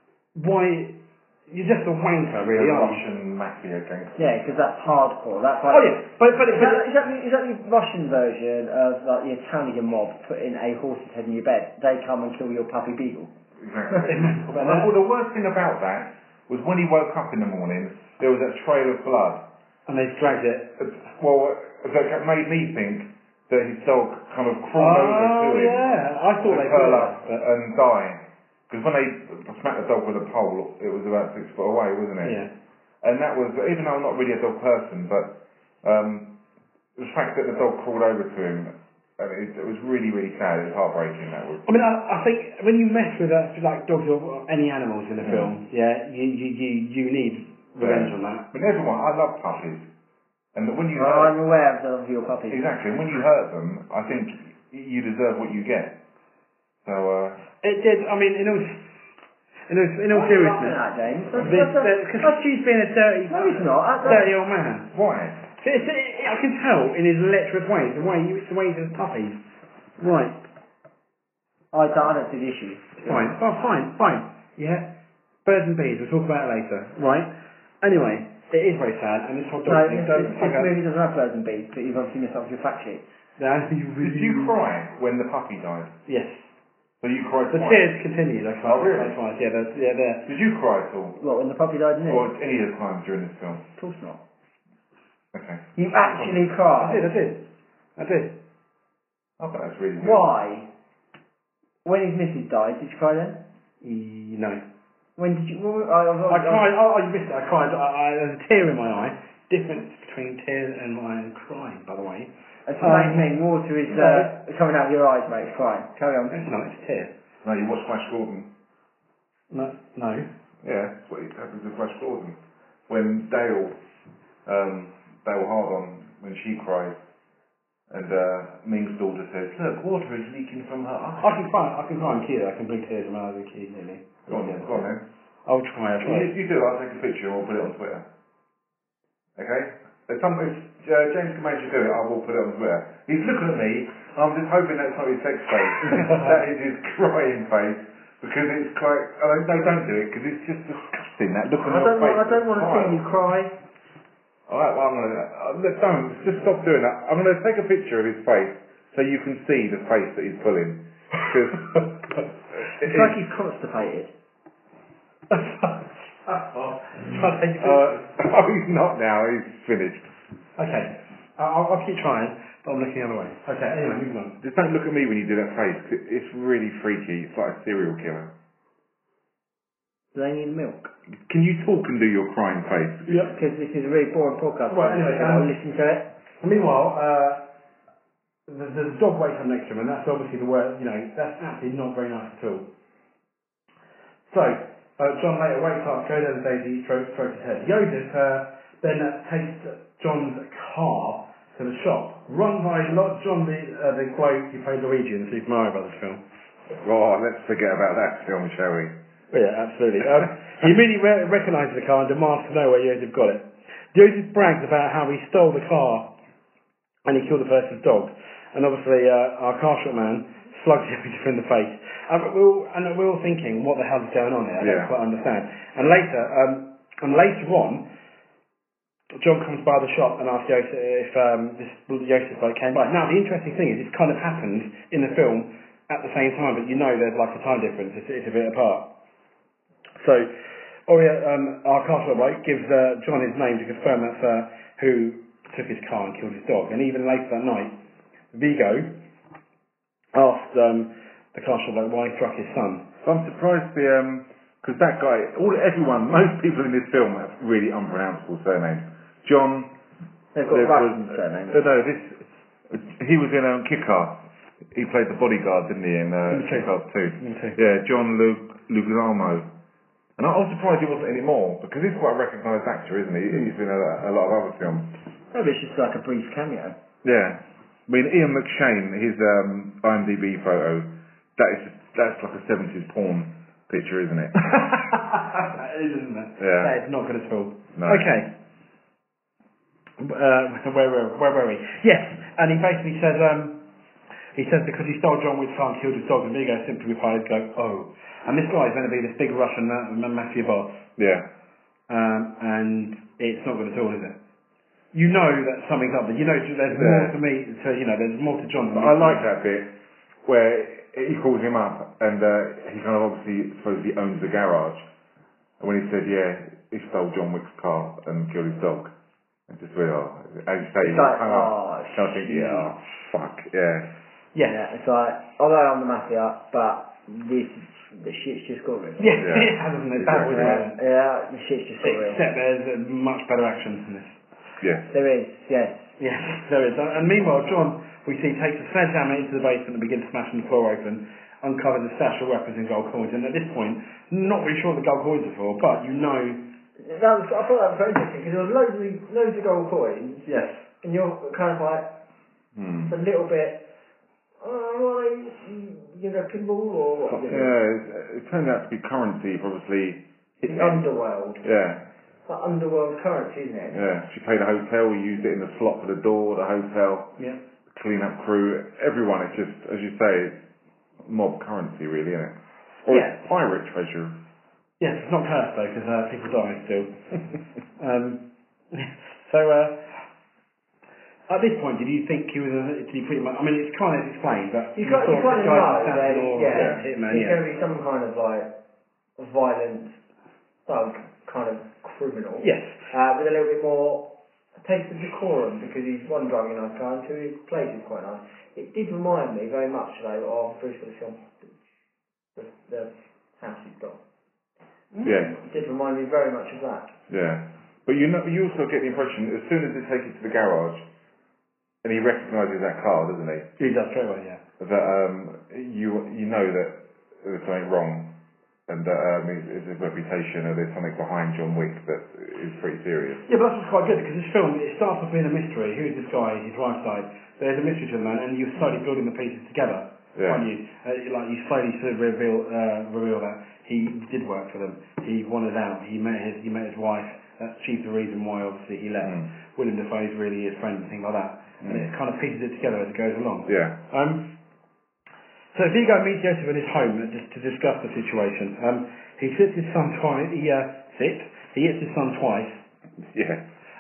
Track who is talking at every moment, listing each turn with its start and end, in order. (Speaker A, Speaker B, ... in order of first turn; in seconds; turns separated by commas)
Speaker A: 0.3-3.0, Speaker B: 2.5-4.4, Speaker C: 4.2-13.3, Speaker A: 5.7-6.9, Speaker B: 13.6-19.5, Speaker A: 13.9-14.9, Speaker A: 19.9-20.8, Speaker B: 20.8-25.9, Speaker A: 24.8-27.5, Speaker B: 26.4-32.4, Speaker A: 32.2-32.5, Speaker B: 33.0-36.4, Speaker B: 37.0-41.7, Speaker A: 41.7-48.5, Speaker B: 45.2-45.5, Speaker B: 47.8-49.9, Speaker B: 50.5-51.4, Speaker C: 51.0-52.6, Speaker B: 52.5-56.0, Speaker B: 56.9-57.4, Speaker A: 57.6-58.8, Speaker A: 59.7-60.8, Speaker C: 60.1-62.4, Speaker A: 61.4-64.9, Speaker C: 63.3-64.3, Speaker B: 64.9-65.5, Speaker A: 65.6-69.4, Speaker A: 70.0-70.4, Speaker C: 71.7-73.3, Speaker A: 73.0-74.9, Speaker A: 75.5-77.3, Speaker A: 77.8-80.7, Speaker C: 79.7-83.0, Speaker A: 83.4-84.6, Speaker B: 84.0-85.9, Speaker A: 86.1-86.4, Speaker B: 87.0-87.9, Speaker A: 87.5-90.3, Speaker B: 88.6-89.2, Speaker B: 90.3-91.2, Speaker C: 91.2-92.3, Speaker B: 92.0-93.6, Speaker C: 93.8-94.2, Speaker B: 95.3-96.5, Speaker C: 95.8-97.1, Speaker A: 96.8-97.5, Speaker A: 98.0-98.4, Speaker B: 99.4-100.3, Speaker C: 100.0-100.7, Speaker C: 101.8-103.4, Speaker A: 103.8-104.6, Speaker C: 105.2-106.7, Speaker A: 106.3-113.3, Speaker C: 112.7-116.4, Speaker A: 113.9-114.3, Speaker A: 116.3-117.1, Speaker B: 117.4-118.5, Speaker A: 119.5-120.3, Speaker B: 120.6-122.4, Speaker B: 122.9-123.8, Speaker B: 124.5-127.0, Speaker B: 127.9-131.4, Speaker A: 131.2-134.8, Speaker B: 134.3-135.0, Speaker A: 135.5-136.3, Speaker B: 136.0-138.1, Speaker B: 139.4-153.0, Speaker C: 151.6-153.6, Speaker B: 154.5-161.9, Speaker B: 162.8-163.2, Speaker C: 162.8-164.1, Speaker A: 165.3-168.1, Speaker B: 167.6-170.1, Speaker A: 170.6-174.4, Speaker B: 174.4-178.3, Speaker C: 180.1-180.9, Speaker B: 181.3-183.3, Speaker A: 183.1-183.3, Speaker C: 183.3-186.1, Speaker A: 184.7-185.5, Speaker A: 186.4-187.4, Speaker A: 188.5-192.7, Speaker A: 194.3-206.2, Speaker B: 206.7-208.9, Speaker A: 209.3-216.1, Speaker A: 217.1-227.8, Speaker B: 224.6-224.9, Speaker A: 229.2-238.9, Speaker A: 240.0-240.3, Speaker A: 240.9-247.8, Speaker A: 248.3-248.9, Speaker A: 250.1-252.9, Speaker B: 253.0-259.7, Speaker C: 260.3-261.6, Speaker B: 260.5-269.5, Speaker A: 266.3-267.6, Speaker B: 270.2-274.9, Speaker C: 275.3-276.8, Speaker B: 277.0-284.5, Speaker A: 284.9-288.3, Speaker B: 286.4-286.8, Speaker B: 287.8-288.2, Speaker A: 290.0-293.6, Speaker A: 294.4-300.8, Speaker B: 301.0-301.3, Speaker A: 301.9-304.2, Speaker A: 304.9-309.3, Speaker B: 306.7-307.2, Speaker B: 308.7-309.7, Speaker B: 310.2-314.8, Speaker B: 315.6-318.9, Speaker B: 319.5-323.9, Speaker C: 320.8-322.7, Speaker C: 324.4-329.2, Speaker A: 329.0-330.8, Speaker B: 329.2-330.6, Speaker C: 330.2-332.2, Speaker A: 331.8-334.2, Speaker B: 334.6-334.9, Speaker C: 334.9-335.9, Speaker A: 336.0-346.5, Speaker C: 346.8-350.3, Speaker A: 350.3-350.6, Speaker C: 350.8-352.0, Speaker B: 352.6-352.9, Speaker C: 352.9-353.7, Speaker C: 354.4-357.6, Speaker B: 357.1-360.9, Speaker C: 360.4-361.5, Speaker B: 361.4-361.9, Speaker C: 362.3-363.8, Speaker B: 363.7-367.1, Speaker B: 367.7-370.4, Speaker B: 371.0-374.2, Speaker A: 374.8-377.0, Speaker A: 377.8-379.8, Speaker A: 381.3-387.4, Speaker C: 384.8-388.5, Speaker B: 386.5-386.9, Speaker C: 389.2-389.9, Speaker C: 390.7-401.4, Speaker A: 392.4-392.8, Speaker C: 402.4-404.0, Speaker C: 404.9-407.0, Speaker B: 405.0-405.4, Speaker B: 407.1-410.8, Speaker B: 411.8-413.5, Speaker A: 413.6-414.4, Speaker B: 414.6-418.1, Speaker B: 418.7-423.2, Speaker A: 423.3-444.3, Speaker B: 430.1-430.5, Speaker B: 439.0-439.3, Speaker B: 441.6-441.9, Speaker B: 443.5-443.8, Speaker A: 445.5-452.6, Speaker B: 453.1-453.4